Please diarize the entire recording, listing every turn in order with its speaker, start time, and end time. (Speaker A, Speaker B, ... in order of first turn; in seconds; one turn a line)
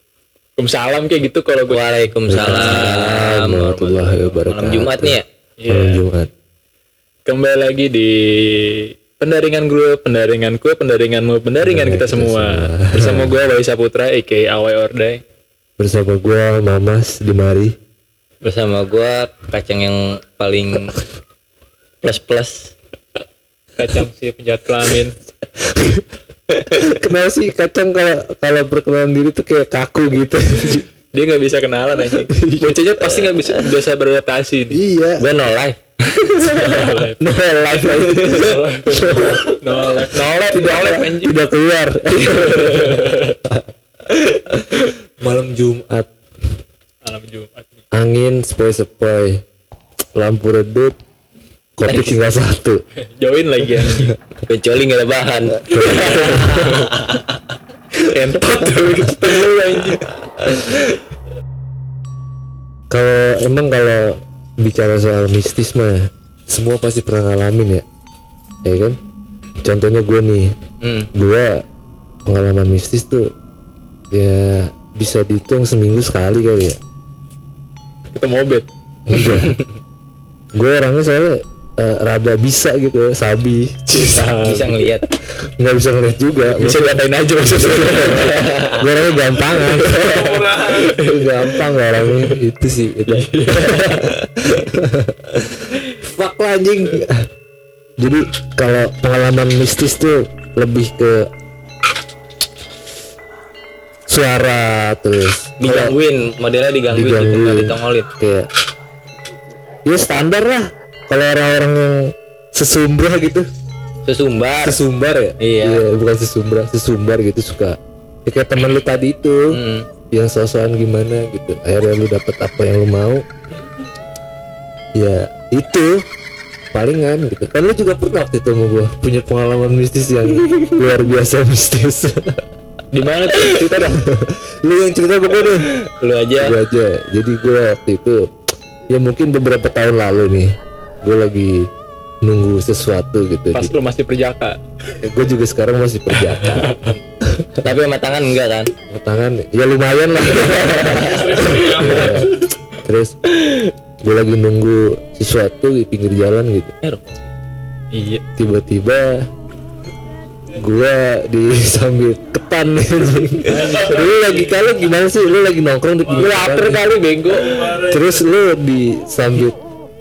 Speaker A: 0.6-1.8
Speaker B: 1.7-5.2
Speaker C: 2.3-6.3
Speaker A: 2.3-3.0
Speaker A: 5.6-6.0
Speaker A: 7.2-15.2
Speaker C: 11.6-13.4
Speaker C: 15.8-17.7
Speaker B: 18.4-21.0
Speaker B: 22.0-22.7
Speaker A: 23.8-25.1
Speaker C: 25.5-26.1
Speaker C: 26.7-30.9
Speaker A: 31.1-34.8
Speaker C: 32.3-32.8
Speaker B: 33.0-33.8
Speaker C: 34.7-35.2
Speaker B: 35.2-37.0
Speaker A: 36.4-37.2
Speaker C: 36.6-39.5
Speaker A: 37.8-41.4
Speaker C: 40.5-43.6
Speaker A: 42.6-43.4
Speaker C: 45.2-46.1
Speaker A: 47.0-47.7
Speaker C: 47.9-49.4
Speaker C: 50.1-50.9
Speaker C: 51.8-52.8
Speaker A: 51.9-52.2
Speaker A: 53.0-54.1
Speaker C: 53.9-54.1
Speaker B: 54.5-56.8
Speaker C: 55.6-56.9
Speaker A: 56.5-57.2
Speaker A: 58.0-60.9
Speaker C: 62.9-67.8
Speaker C: 68.6-69.0
Speaker C: 69.6-70.5
Speaker B: 70.8-71.1
Speaker C: 71.1-71.6
Speaker C: 72.2-73.3
Speaker C: 74.1-76.8
Speaker A: 78.1-79.6
Speaker C: 79.1-79.6
Speaker C: 80.5-84.7
Speaker A: 83.9-84.8
Speaker B: 84.4-85.1
Speaker C: 85.4-97.3
Speaker A: 86.5-88.6
Speaker B: 87.9-88.8
Speaker A: 89.5-92.3
Speaker A: 93.1-94.6
Speaker C: 98.0-101.3
Speaker C: 104.1-105.9
Speaker B: 105.6-108.1
Speaker C: 106.9-108.5
Speaker C: 109.8-113.5
Speaker B: 114.0-114.8
Speaker C: 114.6-119.6
Speaker B: 115.4-115.8
Speaker B: 119.5-119.9
Speaker C: 120.1-123.2
Speaker C: 125.0-126.0
Speaker C: 126.7-132.4
Speaker A: 132.9-134.0
Speaker C: 133.4-135.7
Speaker B: 135.4-136.6
Speaker C: 136.4-138.3
Speaker C: 138.9-141.7
Speaker C: 142.2-143.7
Speaker A: 143.5-144.6
Speaker C: 145.0-146.7
Speaker A: 146.2-147.0
Speaker C: 147.2-147.7
Speaker B: 147.6-148.7
Speaker C: 148.9-153.1
Speaker B: 150.3-152.2
Speaker A: 151.0-152.3
Speaker C: 154.0-156.7
Speaker B: 156.8-157.3
Speaker A: 157.9-158.2
Speaker C: 158.3-159.2
Speaker C: 160.5-166.8
Speaker A: 163.5-164.5
Speaker A: 166.1-168.2
Speaker B: 166.2-167.5
Speaker C: 167.8-169.6